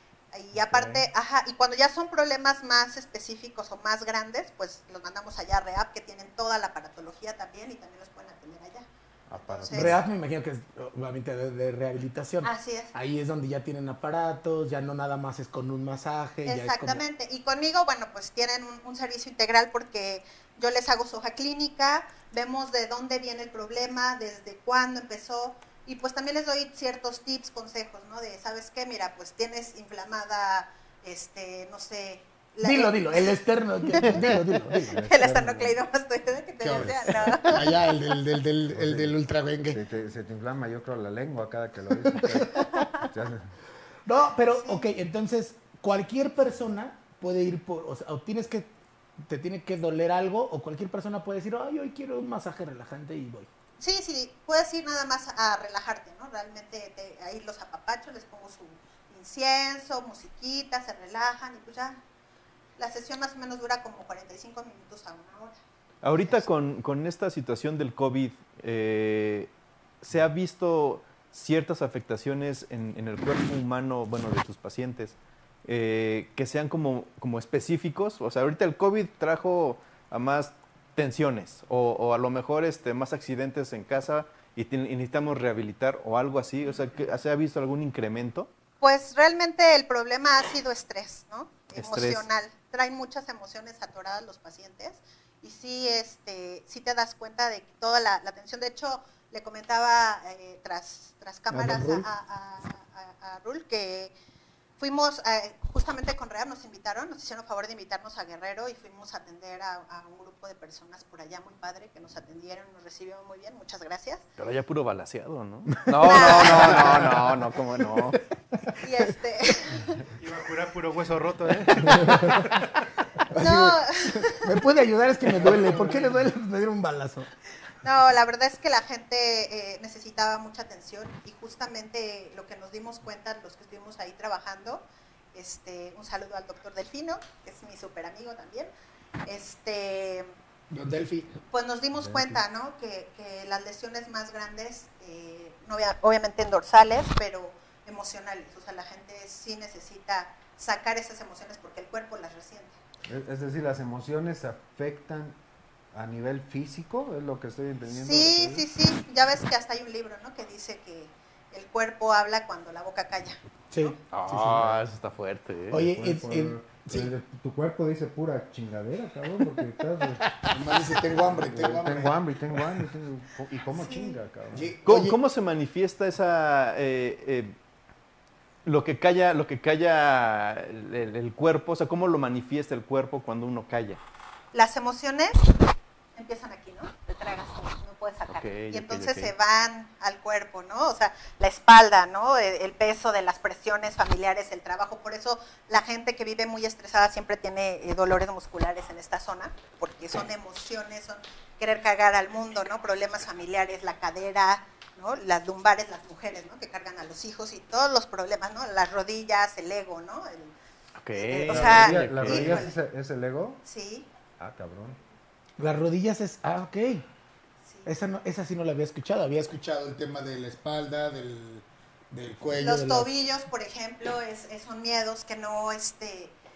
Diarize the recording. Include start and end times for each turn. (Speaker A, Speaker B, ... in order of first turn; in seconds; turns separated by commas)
Speaker A: 0.3-10.0, Speaker B: 0.5-1.1, Speaker B: 9.3-10.0, Speaker C: 9.7-17.0, Speaker A: 12.4-12.9, Speaker A: 16.5-33.4, Speaker C: 32.6-35.0, Speaker A: 33.9-34.2, Speaker B: 34.1-34.3, Speaker B: 34.9-35.8, Speaker A: 35.0-37.9, Speaker C: 36.6-39.8, Speaker B: 36.7-37.4, Speaker B: 38.7-39.2, Speaker B: 39.7-43.5, Speaker C: 42.0-42.9, Speaker C: 44.1-48.7, Speaker A: 44.6-44.9, Speaker C: 49.2-53.5, Speaker A: 53.8-62.0, Speaker A: 62.8-65.6, Speaker D: 66.0-69.5, Speaker D: 70.0-88.5, Speaker A: 88.8-104.1, Speaker D: 91.8-92.3, Speaker C: 101.5-102.1, Speaker A: 104.8-114.2, Speaker D: 114.4-118.2, Speaker C: 115.7-118.2, Speaker A: 116.0-116.8, Speaker A: 118.8-120.0, Speaker E: 120.2-122.3, Speaker C: 121.9-122.5, Speaker C: 123.3-127.3, Speaker A: 123.4-124.5, Speaker A: 127.8-138.7, Speaker A: 139.3-140.3, Speaker C: 140.7-141.3, Speaker A: 141.5-152.8, Speaker B: 142.0-142.4, Speaker B: 153.1-155.4, Speaker B: 155.9-158.7, Speaker A: 157.9-163.9, Speaker C: 163.7-164.0, Speaker D: 164.1-165.8, Speaker B: 164.3-164.8, Speaker C: 165.7-167.1, Speaker B: 165.7-170.2, Speaker C: 170.5-172.2, Speaker B: 171.3-174.7, Speaker A: 173.7-174.2, Speaker C: 174.5-175.2, Speaker D: 174.8-177.6, Speaker D: 178.6-184.0, Speaker A: 184.5-185.5, Speaker A: 186.2-210.5, Speaker D: 188.3-189.3, Speaker D: 211.0-212.6, Speaker A: 211.1-212.8, Speaker B: 211.5-213.6, Speaker A: 213.6-214.1, Speaker B: 214.4-215.0, Speaker C: 215.6-217.1, Speaker A: 217.7-217.9, Speaker C: 217.9-223.1, Speaker A: 222.6-226.4